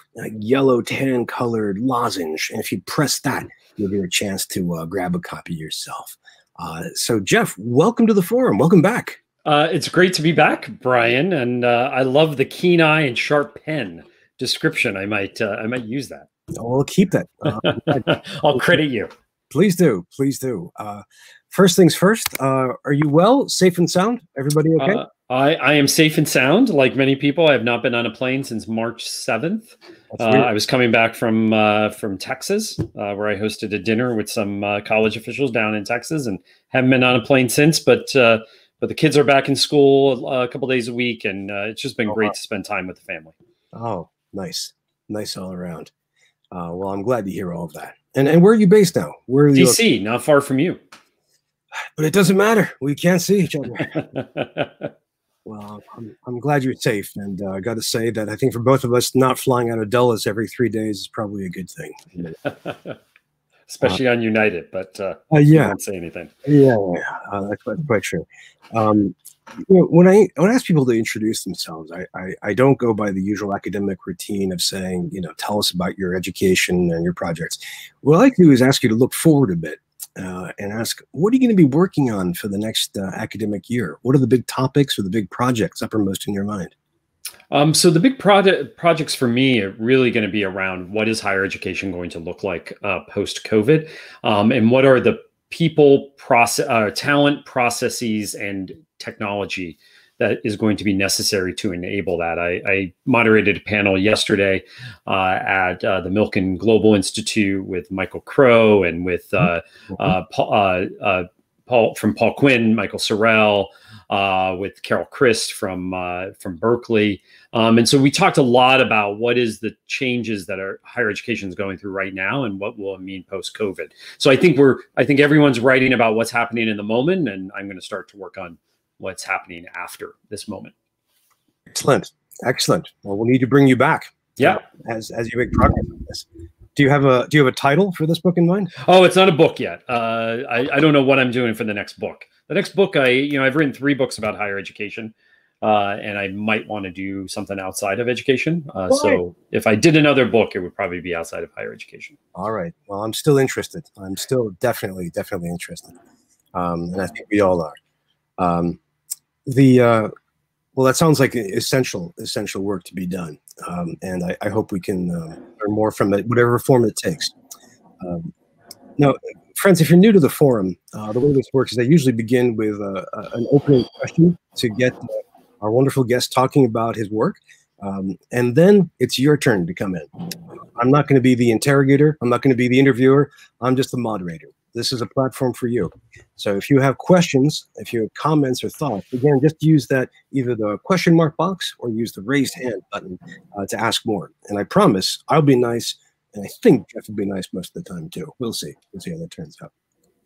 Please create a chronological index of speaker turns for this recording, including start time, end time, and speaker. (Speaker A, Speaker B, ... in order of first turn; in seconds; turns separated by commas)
Speaker A: 0.1-9.2, Speaker B: 9.4-16.3, Speaker A: 16.6-18.8, Speaker B: 17.5-19.1, Speaker A: 19.5-25.0, Speaker B: 24.8-43.3, Speaker A: 30.1-30.5, Speaker A: 43.7-45.9, Speaker A: 46.5-49.8, Speaker B: 49.5-50.8, Speaker A: 52.0-54.0, Speaker B: 54.0-54.9, Speaker A: 55.5-62.4, Speaker B: 62.5-63.0, Speaker B: 63.7-66.3, Speaker A: 65.3-65.8, Speaker A: 66.5-86.7, Speaker B: 87.5-130.7, Speaker A: 131.7-138.7, Speaker B: 134.4-134.6, Speaker B: 138.8-152.2, Speaker A: 148.9-149.2, Speaker A: 152.3-155.9, Speaker A: 156.5-157.8, Speaker A: 158.4-158.8, Speaker A: 159.4-160.1, Speaker A: 160.8-167.3, Speaker A: 168.0-168.3, Speaker A: 169.0-180.1, Speaker A: 180.8-199.7